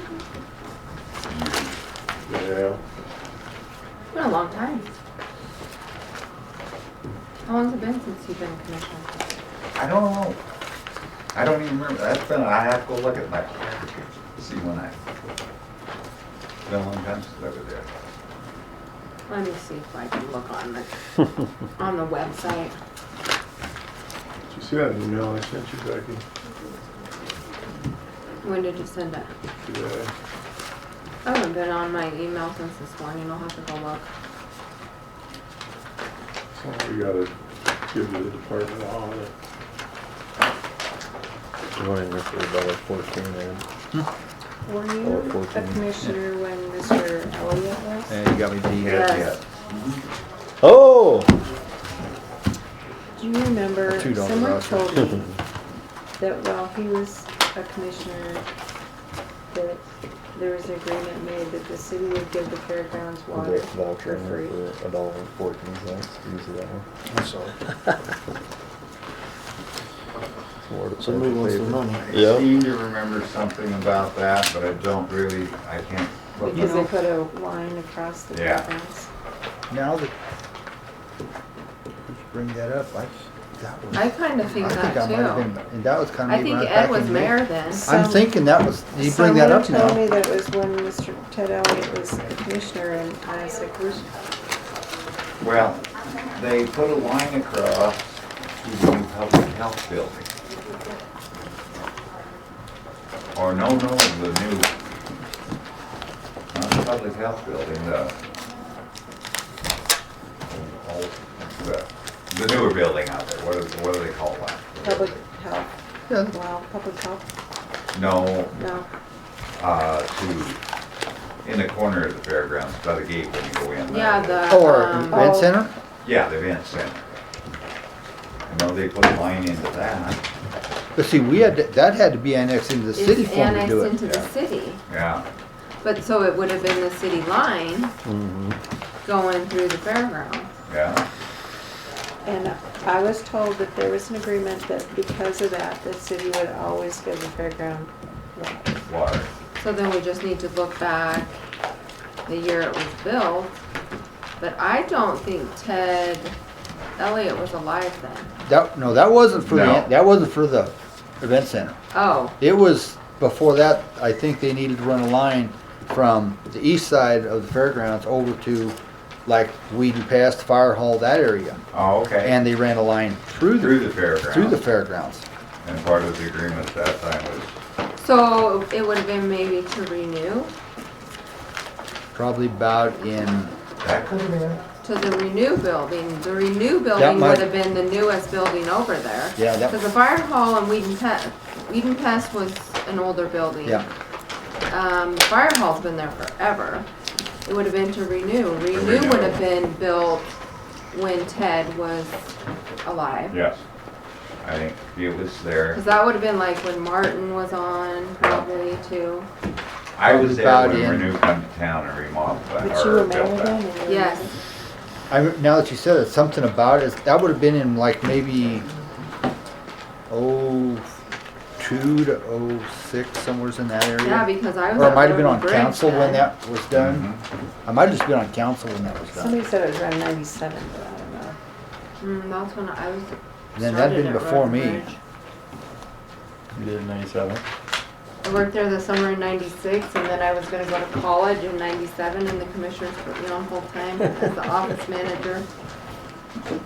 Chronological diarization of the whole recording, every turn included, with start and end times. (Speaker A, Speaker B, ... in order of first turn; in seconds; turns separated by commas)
Speaker A: 1.2-1.8, Speaker B: 2.3-2.8, Speaker C: 4.1-4.9, Speaker C: 7.4-9.3, Speaker A: 9.8-10.4, Speaker A: 11.3-15.0, Speaker A: 16.6-17.9, Speaker C: 19.3-20.9, Speaker C: 21.8-22.8, Speaker B: 24.5-26.2, Speaker C: 28.4-29.3, Speaker B: 29.6-30.1, Speaker C: 31.2-34.1, Speaker B: 36.5-37.3, Speaker B: 37.9-39.3, Speaker D: 41.8-43.6, Speaker E: 44.6-48.1, Speaker D: 45.0-45.9, Speaker F: 48.1-49.0, Speaker A: 48.8-50.0, Speaker C: 48.9-49.4, Speaker D: 50.6-51.3, Speaker E: 53.1-55.3, Speaker F: 53.9-55.0, Speaker E: 56.2-58.4, Speaker E: 59.5-59.8, Speaker E: 60.3-64.6, Speaker D: 63.3-66.8, Speaker F: 67.1-67.5, Speaker D: 70.7-72.5, Speaker A: 71.2-76.9, Speaker E: 76.5-79.1, Speaker C: 76.5-76.9, Speaker A: 78.3-78.7, Speaker F: 79.7-80.1, Speaker F: 82.1-90.0, Speaker C: 83.9-85.5, Speaker C: 86.3-87.9, Speaker E: 87.8-88.3, Speaker E: 89.0-94.1, Speaker A: 95.4-100.3, Speaker A: 103.3-104.7, Speaker A: 106.5-108.1, Speaker A: 110.5-115.2, Speaker E: 114.8-115.7, Speaker F: 116.1-116.3, Speaker E: 116.2-117.2, Speaker A: 117.9-118.7, Speaker E: 118.5-118.8, Speaker A: 119.6-120.6, Speaker A: 121.4-124.5, Speaker C: 123.9-125.3, Speaker F: 124.5-125.7, Speaker E: 125.1-125.5, Speaker A: 126.0-127.1, Speaker A: 128.5-130.2, Speaker F: 130.9-134.0, Speaker C: 132.9-134.8, Speaker A: 134.0-134.3, Speaker A: 134.9-135.2, Speaker C: 135.8-137.9, Speaker D: 138.1-138.6, Speaker C: 139.0-140.5, Speaker A: 140.7-141.1, Speaker E: 142.2-148.6, Speaker A: 148.9-149.3, Speaker C: 149.6-151.3, Speaker C: 152.3-153.6, Speaker C: 154.4-156.3, Speaker C: 157.0-158.3, Speaker F: 158.4-161.8, Speaker A: 159.5-159.9, Speaker C: 161.9-162.3, Speaker F: 162.4-171.6, Speaker A: 171.7-172.4, Speaker F: 172.2-175.2, Speaker A: 173.5-174.6, Speaker A: 175.6-177.5, Speaker C: 178.0-180.5, Speaker F: 182.1-183.5, Speaker A: 183.8-184.6, Speaker C: 184.8-193.8, Speaker F: 186.9-187.4, Speaker F: 189.4-189.8, Speaker C: 194.7-196.9, Speaker C: 197.4-200.3, Speaker A: 198.7-199.4, Speaker C: 200.9-202.2, Speaker C: 202.8-203.4, Speaker A: 203.3-203.6, Speaker A: 204.4-205.8, Speaker C: 205.7-209.3, Speaker A: 208.2-208.4, Speaker A: 209.9-213.7, Speaker F: 210.0-211.2, Speaker E: 212.6-214.4, Speaker C: 213.8-214.2, Speaker F: 215.1-218.7, Speaker F: 220.1-220.9, Speaker F: 221.6-227.1, Speaker C: 224.0-226.3, Speaker A: 226.7-227.2, Speaker F: 227.7-229.4, Speaker E: 229.1-231.4, Speaker C: 232.0-235.0, Speaker F: 233.6-234.9, Speaker D: 236.5-237.4, Speaker C: 238.2-245.5